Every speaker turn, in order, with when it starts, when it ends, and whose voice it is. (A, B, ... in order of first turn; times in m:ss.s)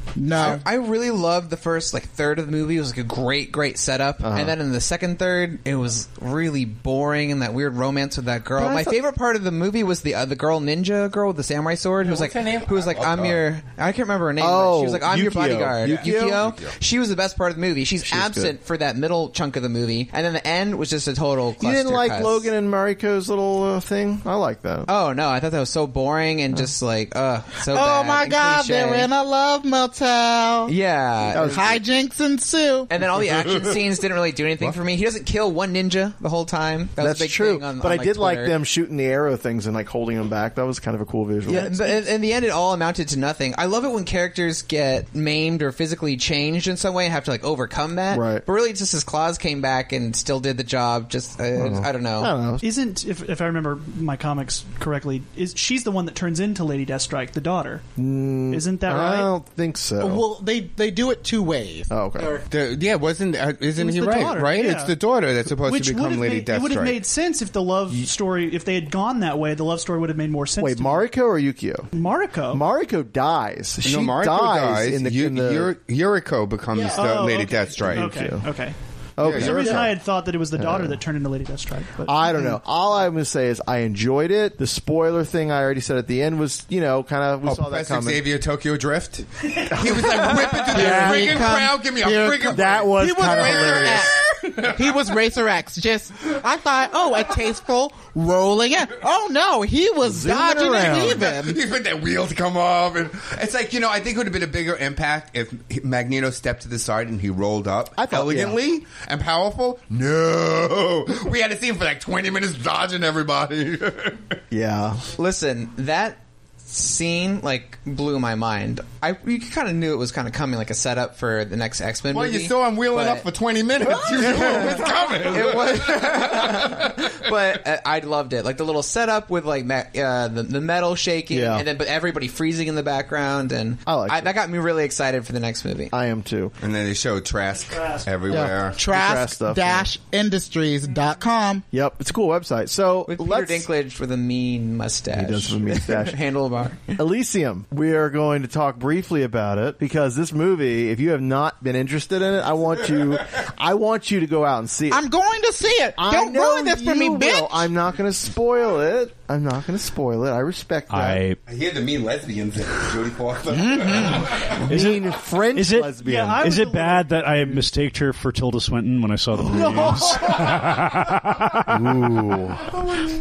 0:00.2-0:00.6 A
0:00.4-0:22.5 B
0:04.2-0:04.6 C
0:08.6-0:09.0 C
0:12.0-0:13.4 D
0:14.4-0:16.5 C
0:15.8-0:16.7 D
0:18.0-0:18.6 C
0:21.6-0:24.9 C
0:24.9-0:29.1 B
0:27.7-0:30.7 A
0:30.7-0:31.6 B
0:31.3-0:31.8 C
0:31.5-0:32.9 A
0:32.9-0:38.5 B
0:33.2-0:33.8 D
0:37.0-0:42.0 C
0:41.5-0:52.3 B
0:48.1-0:48.4 C
0:51.6-0:52.6 C
0:52.6-0:57.8 E
0:58.0-1:00.2 C
0:58.5-0:59.3 E
1:00.0-1:02.4 A
1:01.9-1:02.3 C
1:02.5-1:07.0 D
1:03.8-1:05.0 E
1:05.5-1:11.0 E
1:10.6-1:11.9 C
1:11.9-1:12.6 E
1:12.5-1:15.7 C
1:13.8-1:18.2 D
1:16.7-1:17.1 A
1:17.0-1:22.3 E
1:17.8-1:18.5 C
1:19.2-1:19.9 C
1:19.2-1:19.9 D
1:20.6-1:21.0 C
1:22.0-1:28.2 C
1:27.4-1:34.9 D
1:30.2-1:41.6 A
1:30.7-1:31.4 C
1:32.5-1:34.1 C
1:40.0-1:41.3 C
1:40.8-1:54.4 D
1:48.0-1:48.6 C
1:54.5-1:55.0 C
1:55.2-2:03.3 B
2:02.1-2:07.2 D
2:03.8-2:15.9 B
2:04.1-2:04.7 C
2:11.3-2:11.7 C
2:13.9-2:14.3 C
2:15.9-2:16.5 C
2:16.6-2:18.8 D
2:17.6-2:18.1 E
2:18.3-2:19.9 C
2:18.8-2:21.6 A
2:21.7-2:23.7 C
2:23.1-2:27.0 B
2:25.1-2:26.2 C
2:27.0-2:35.0 C
2:34.9-2:37.7 A
2:36.0-2:41.2 C
2:40.9-2:41.4 F
2:41.4-2:44.6 D
2:43.5-2:44.5 A
2:44.6-2:46.5 C
2:44.7-2:52.4 F
2:46.0-2:47.6 E
2:49.4-2:50.3 C
2:51.7-2:52.7 C